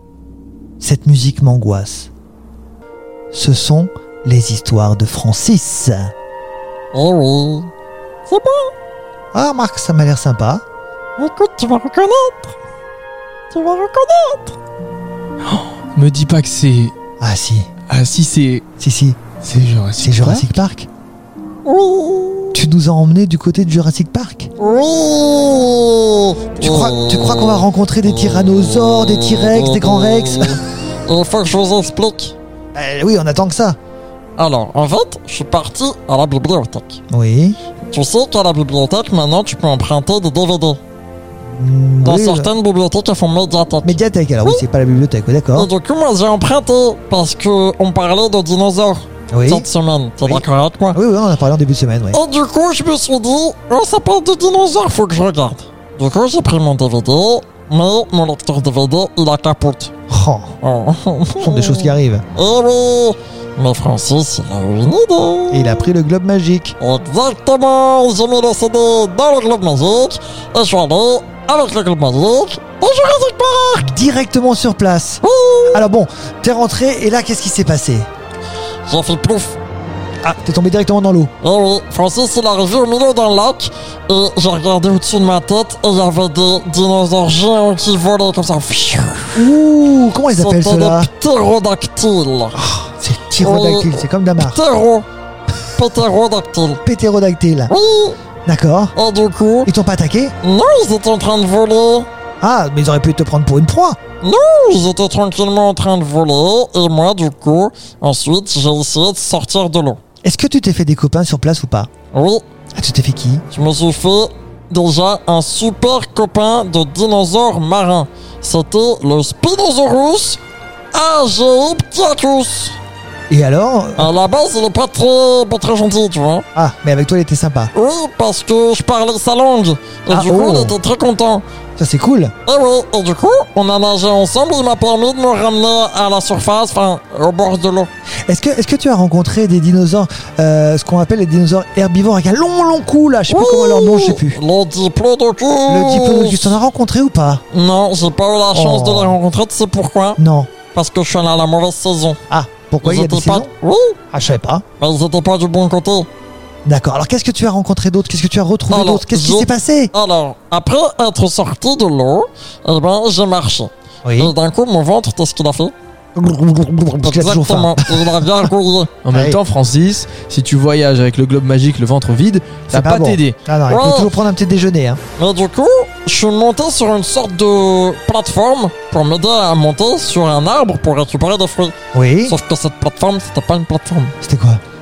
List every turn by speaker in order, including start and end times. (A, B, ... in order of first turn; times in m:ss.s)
0:00.8-0:02.1 A
0:03.3-0:06.1 A
0:06.9-0:07.7 B
0:08.3-0:08.7 B
0:09.3-0:10.6 A
0:11.2-0:12.6 B
0:13.5-0:14.6 B
0:15.9-0:16.9 C
0:17.2-0:17.7 A
0:17.9-0:18.6 C
0:18.8-0:19.2 A
0:19.4-0:20.5 C
0:20.0-0:20.9 A
0:21.6-0:22.6 B
0:22.5-0:24.5 A
0:24.6-0:32.3 B
0:26.6-0:30.6 A
0:32.7-0:33.8 A
0:34.4-0:37.0 B
0:37.1-0:37.6 A
0:37.9-0:40.8 B
0:41.5-0:42.5 A
0:42.0-0:44.6 B
0:43.8-0:45.7 A
0:45.5-0:51.0 B
0:49.3-0:49.7 A
0:50.2-0:52.2 A
0:52.1-0:59.9 B
1:00.1-1:00.5 A
1:00.6-1:05.8 B
1:01.4-1:02.2 A
1:05.5-1:06.8 A
1:06.8-1:13.9 B
1:13.9-1:18.1 A
1:15.2-1:15.8 B
1:18.9-1:19.6 B
1:20.2-1:21.3 A
1:21.4-1:29.5 B
1:29.3-1:31.1 A
1:30.3-1:32.6 B
1:32.5-1:34.6 A
1:33.4-1:35.0 B
1:35.8-1:36.8 B
1:36.8-1:37.7 A
1:37.7-1:38.2 B
1:38.4-1:38.9 A
1:39.0-1:39.7 B
1:39.6-1:40.4 A
1:40.4-1:42.1 B
1:42.4-1:44.0 A
1:44.2-1:50.0 B
1:50.2-1:51.9 A
1:52.1-1:52.4 B
1:52.7-1:53.4 A
1:53.5-2:00.4 B
2:00.9-2:02.8 B
2:03.3-2:04.1 A
2:04.0-2:06.4 B
2:06.5-2:07.7 A
2:07.7-2:11.4 B
2:10.1-2:10.8 A
2:11.8-2:12.3 A
2:12.4-2:17.9 B
2:18.3-2:24.4 A
2:23.3-2:26.5 B
2:25.7-2:27.4 A
2:27.5-2:30.2 B
2:28.5-2:29.2 A
2:30.2-2:30.5 A
2:30.7-2:32.2 B
2:32.3-2:33.5 A
2:32.8-2:34.0 B
2:34.1-2:34.6 A
2:34.8-2:36.1 B
2:36.6-2:39.9 A
2:38.7-2:45.7 B
2:44.0-2:44.3 A
2:46.1-2:48.5 A
2:47.0-2:48.9 B
2:49.0-2:53.4 C
2:49.1-2:49.4 A
2:52.7-2:55.0 A
2:53.7-2:54.1 B
2:55.2-3:04.1 B
3:01.9-3:02.4 A
3:04.2-3:04.6 A